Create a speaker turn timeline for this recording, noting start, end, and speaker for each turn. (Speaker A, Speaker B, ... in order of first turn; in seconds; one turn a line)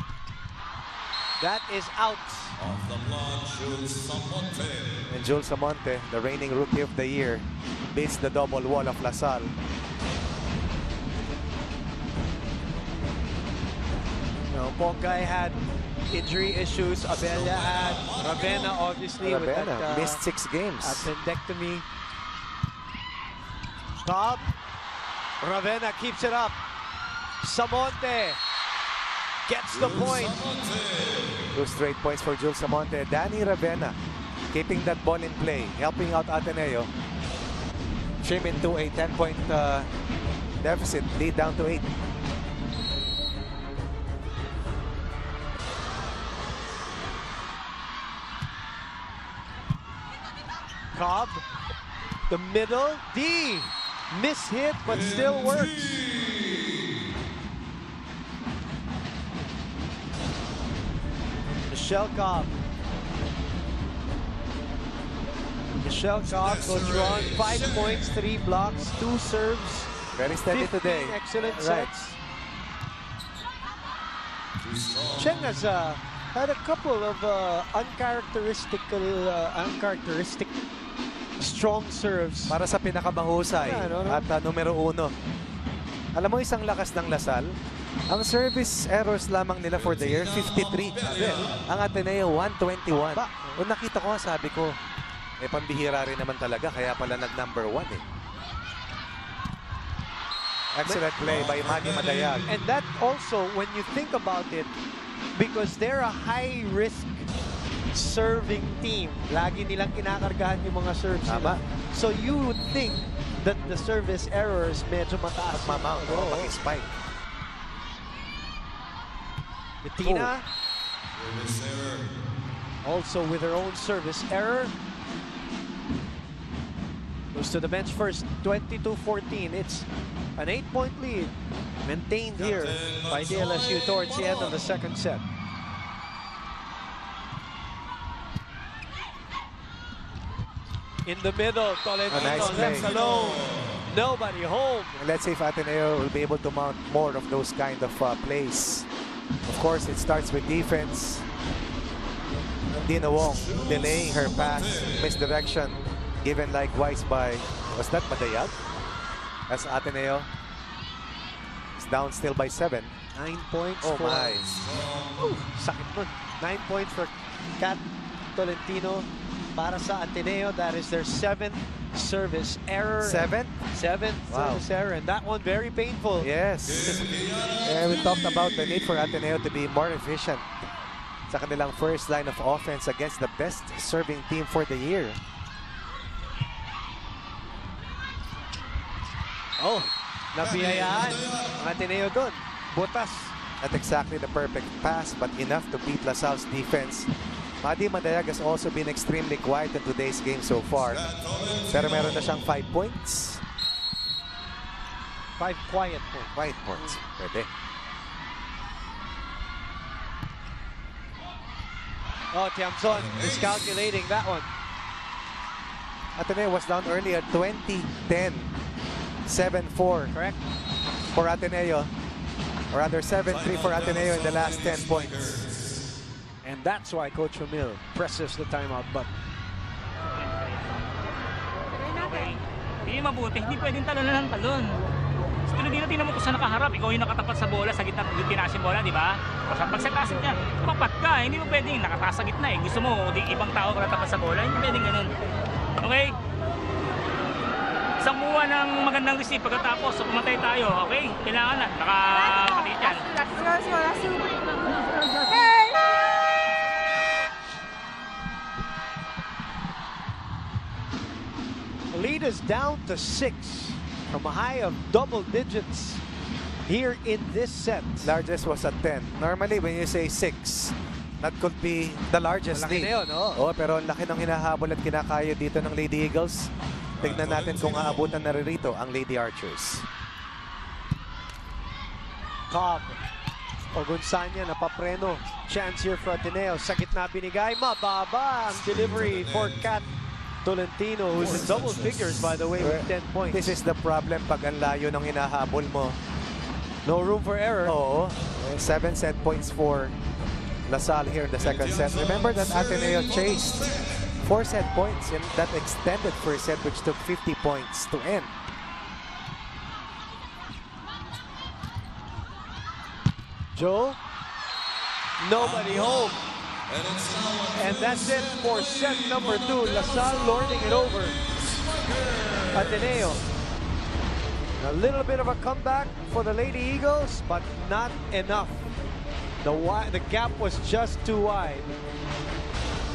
Speaker A: 1.4-2.6
Speaker B: 2.6-5.1
Speaker C: 5.1-9.5
Speaker A: 14.5-15.6
Speaker A: 16.1-20.2
Speaker B: 17.1-18.8
Speaker C: 19.2-21.1
Speaker A: 20.8-21.9
Speaker A: 24.0-24.4
Speaker A: 25.4-26.6
Speaker A: 27.4-28.4
Speaker A: 29.5-30.4
Speaker B: 29.7-31.5
Speaker C: 31.5-34.0
Speaker C: 34.5-36.9
Speaker C: 38.2-39.9
Speaker C: 40.6-41.9
Speaker A: 50.9-51.4
Speaker A: 52.3-56.0
Speaker B: 54.9-57.0
Speaker A: 61.7-62.5
Speaker A: 65.8-69.9
Speaker B: 66.2-68.2
Speaker C: 70.2-71.9
Speaker A: 70.5-72.2
Speaker B: 74.6-75.6
Speaker A: 75.2-80.5
Speaker A: 81.4-82.6
Speaker C: 82.5-85.1
Speaker A: 83.6-84.3
Speaker C: 86.2-87.5
Speaker C: 88.1-94.8
Speaker B: 89.8-91.7
Speaker A: 93.2-93.6
Speaker C: 95.4-98.0
Speaker C: 100.7-102.5
Speaker B: 101.2-102.4
Speaker A: 102.5-104.7
Speaker A: 105.4-107.3
Speaker A: 107.9-116.5
Speaker C: 111.3-111.6
Speaker C: 115.5-116.9
Speaker A: 119.8-120.5
Speaker C: 120.0-120.3
Speaker B: 121.2-122.2
Speaker A: 122.8-124.7
Speaker A: 127.3-131.3
Speaker A: 131.8-135.2
Speaker B: 132.4-134.7
Speaker A: 141.1-144.9
Speaker C: 142.1-142.9
Speaker B: 142.1-143.8
Speaker C: 144.9-148.9
Speaker C: 149.5-151.2
Speaker C: 152.7-158.6
Speaker B: 153.2-155.2
Speaker C: 159.5-160.3
Speaker C: 161.8-163.0
Speaker A: 163.2-164.4
Speaker C: 163.8-164.4
Speaker B: 164.4-165.4
Speaker A: 165.2-167.8
Speaker A: 168.3-176.3
Speaker C: 173.0-173.6
Speaker C: 174.3-174.6
Speaker C: 176.2-177.1
Speaker B: 176.7-178.4
Speaker C: 177.6-180.5
Speaker C: 181.3-185.2
Speaker A: 189.6-193.3
Speaker B: 190.4-191.5
Speaker C: 193.6-197.1
Speaker C: 197.6-201.1
Speaker B: 200.7-202.3
Speaker C: 201.7-203.4
Speaker A: 205.4-207.0
Speaker C: 206.3-207.5
Speaker A: 212.3-214.5
Speaker B: 212.9-213.9
Speaker C: 216.2-218.5
Speaker C: 219.2-220.1
Speaker A: 220.1-220.4
Speaker C: 221.1-221.9
Speaker C: 222.7-225.4
Speaker B: 223.3-225.8
Speaker A: 226.4-229.1
Speaker D: 231.9-234.8
Speaker D: 235.5-245.2
Speaker D: 245.8-246.2
Speaker D: 248.0-253.1
Speaker A: 261.9-266.0
Speaker A: 266.7-268.1
Speaker C: 268.0-276.5
Speaker A: 272.5-273.4
Speaker B: 277.0-278.1
Speaker C: 277.0-279.9
Speaker A: 282.5-283.0
Speaker A: 283.7-289.9
Speaker B: 288.5-289.7
Speaker A: 290.4-293.6
Speaker B: 291.2-292.4
Speaker C: 292.6-296.0
Speaker A: 296.9-297.8
Speaker C: 297.6-299.9
Speaker C: 300.7-303.7
Speaker B: 301.4-304.2
Speaker C: 304.2-308.3
Speaker A: 313.6-314.0
Speaker A: 315.2-316.2
Speaker B: 315.4-316.1
Speaker B: 316.7-323.2
Speaker A: 317.6-321.2
Speaker A: 322.5-323.2
Speaker A: 324.6-328.6
Speaker A: 329.4-331.8